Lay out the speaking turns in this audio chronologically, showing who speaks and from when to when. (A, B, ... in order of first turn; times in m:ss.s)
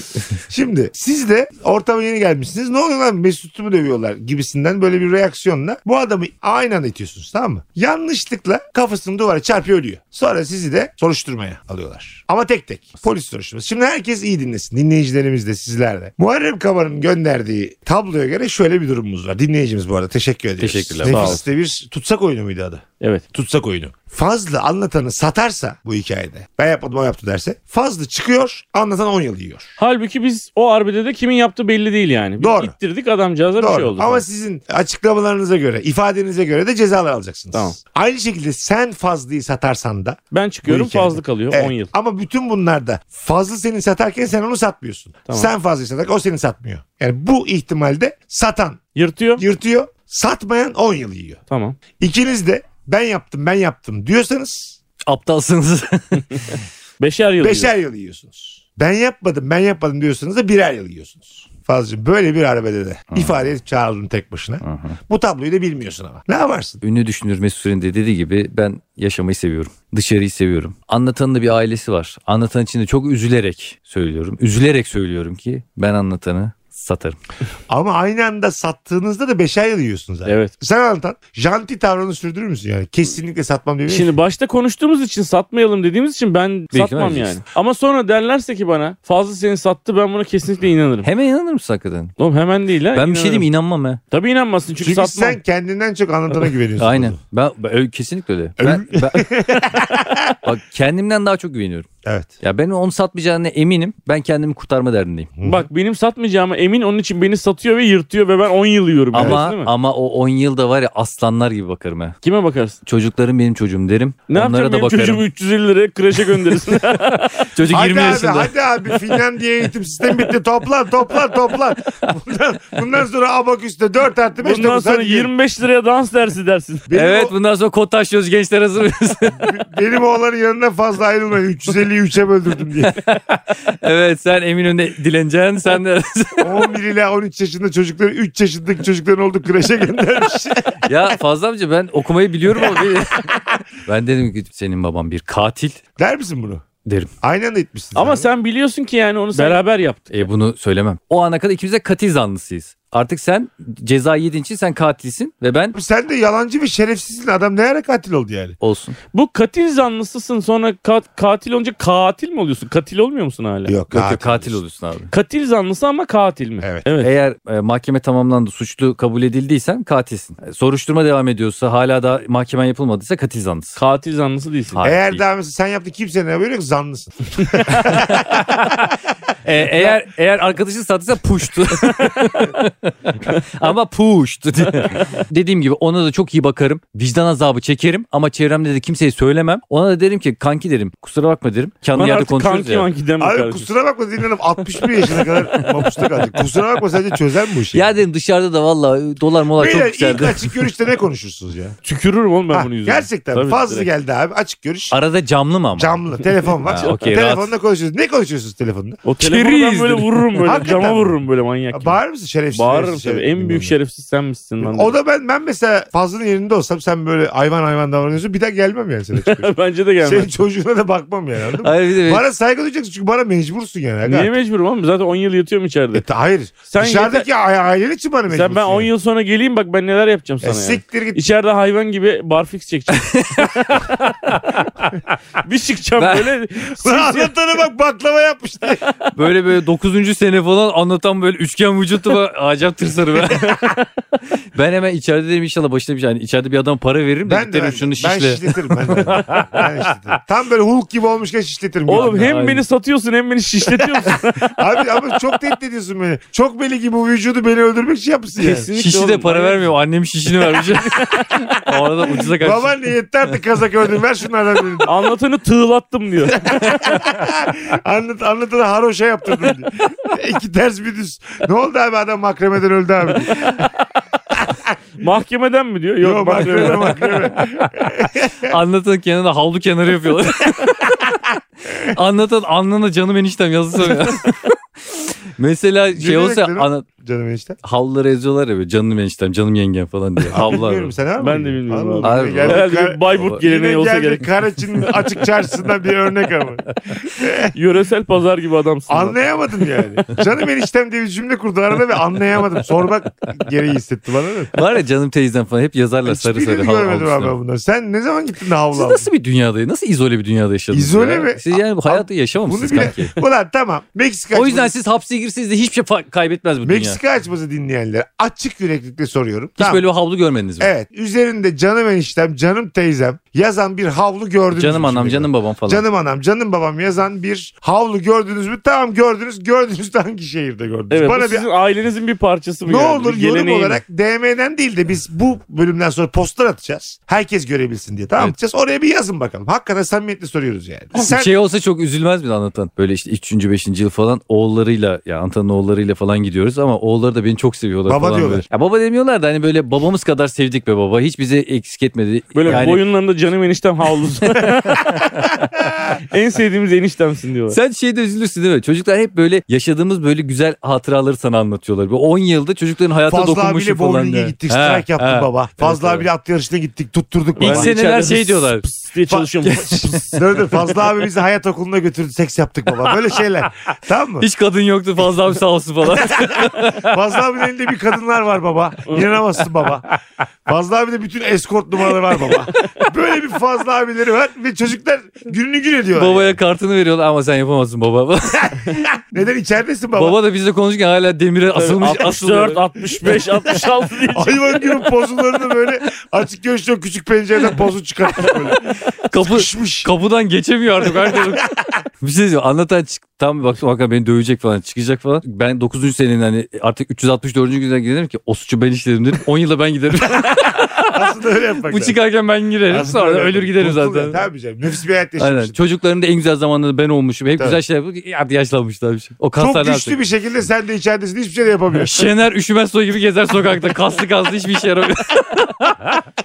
0:00.4-0:29.7 A
0:20.6-0:21.4 B
0:21.0-0:21.4 C
0:29.8-0:34.2 C
0:32.4-0:32.7 A
0:33.6-0:48.8 A
0:40.3-0:41.9 C
0:49.0-0:49.4 C
0:49.4-0:51.4 A
0:51.5-0:51.8 C
0:52.0-0:54.8 A
0:55.1-0:56.6 B
0:57.0-0:57.7 C
0:57.4-1:06.8 A
1:04.6-1:05.0 B
1:06.8-1:17.2 B
1:17.7-1:24.1 A
1:20.3-1:20.5 C
1:23.9-1:31.1 C
1:26.7-1:27.4 B
1:31.0-1:32.1 B
1:32.2-1:33.5 C
1:32.9-1:34.0 B
1:34.1-1:35.4 C
1:34.8-1:37.2 A
1:36.8-1:39.3 B
1:38.6-1:40.4 A
1:40.4-1:41.9 B
1:42.0-1:42.3 A
1:42.4-1:45.3 B
1:45.4-1:45.7 A
1:45.4-1:49.7 C
1:49.1-1:52.2 B
1:49.1-1:49.4 A
1:52.2-1:52.8 C
1:52.8-1:55.2 B
1:54.3-1:57.5 C
1:57.4-1:59.0 B
1:57.7-2:05.3 A
2:04.4-2:06.9 C
2:06.9-2:07.3 A
2:06.9-2:09.5 B
2:09.4-2:13.0 A
2:12.9-2:16.7 B
2:16.4-2:21.1 A
2:20.8-2:25.8 B
2:22.6-2:23.4 A
2:26.0-2:26.6 A
2:27.2-2:28.3 A
2:28.0-2:30.1 C
2:30.1-2:35.8 B
2:35.8-2:38.6 A
2:38.6-2:39.0 B
2:39.1-2:43.8 C
2:43.6-2:44.6 A
2:43.9-2:45.1 B
2:45.1-2:47.1 C
2:47.0-2:53.8 B
2:53.8-2:54.8 C
2:54.7-2:55.2 B
2:54.8-2:58.8 A
2:57.8-2:58.9 B
2:59.4-3:12.9 B
3:12.0-3:13.7 C
3:13.2-3:17.9 A
3:17.7-3:20.6 B
3:19.6-3:21.8 A
3:21.8-3:23.9 C
3:22.5-3:25.0 A
3:24.9-3:26.0 B
3:25.8-3:29.0 A
3:26.6-3:27.5 B
3:29.0-3:32.0 C
3:29.2-3:30.2 B
3:30.4-3:31.2 A
3:31.7-3:33.8 A
3:32.5-3:35.0 C
3:34.6-3:44.3 A
3:39.2-3:40.3 C
3:41.6-3:42.2 B
3:44.0-3:46.1 C
3:45.9-3:48.9 A
3:46.7-3:47.3 C
3:48.3-3:53.9 C
3:50.4-3:51.2 A
3:52.9-3:54.9 B
3:55.4-3:57.4 C
3:56.0-3:56.3 B
3:56.8-3:58.8 A
3:59.1-4:03.7 B
4:03.3-4:03.9 C
4:04.5-4:10.1 B
4:07.3-4:12.3 A
4:11.9-4:14.6 C
4:11.9-4:12.6 B
4:13.8-4:18.7 A
4:18.4-4:19.6 C
4:18.7-4:22.7 B
4:20.4-4:21.3 C
4:22.4-4:25.0 A
4:24.8-4:26.5 C
4:26.4-4:33.7 A
4:34.3-4:34.8 A
4:35.0-4:37.2 C
4:36.0-4:38.6 A
4:37.3-4:37.7 B
4:38.4-4:46.9 B
4:46.0-4:47.6 A
4:47.6-4:50.9 B
4:50.3-4:57.5 A
4:51.2-4:54.3 C
4:52.0-4:53.4 B
4:57.5-4:59.7 C
4:58.9-5:04.5 A
5:04.5-5:07.4 B
5:06.0-5:09.1 A
5:08.7-5:13.1 B
5:10.7-5:14.7 A
5:14.3-5:17.0 B
5:16.6-5:19.8 A
5:19.6-5:20.7 B
5:20.6-5:31.5 A
5:24.6-5:25.8 B
5:30.9-5:33.8 C
5:32.7-5:41.3 A
5:41.0-5:52.8 B
5:47.9-5:48.4 A
5:52.4-5:55.0 C
5:54.2-5:55.5 B
5:55.9-5:57.6 C
5:57.5-6:06.1 B
6:03.1-6:07.7 A
6:07.4-6:08.7 B
6:07.4-6:09.8 C
6:09.1-6:14.2 A
6:09.5-6:10.7 B
6:14.2-6:17.0 B
6:15.8-6:19.9 A
6:18.9-6:19.2 C
6:20.5-6:26.4 A
6:22.3-6:22.6 C
6:26.0-6:28.9 B
6:28.3-6:30.2 A
6:30.0-6:32.6 B
6:31.5-6:34.6 C
6:33.0-6:39.9 A
6:39.0-6:51.0 B
6:40.8-6:41.5 A
6:50.1-6:52.0 A
6:51.6-6:54.2 B
6:52.7-6:55.6 A
6:55.2-7:00.0 B
6:59.4-7:02.1 A
7:01.8-7:05.8 B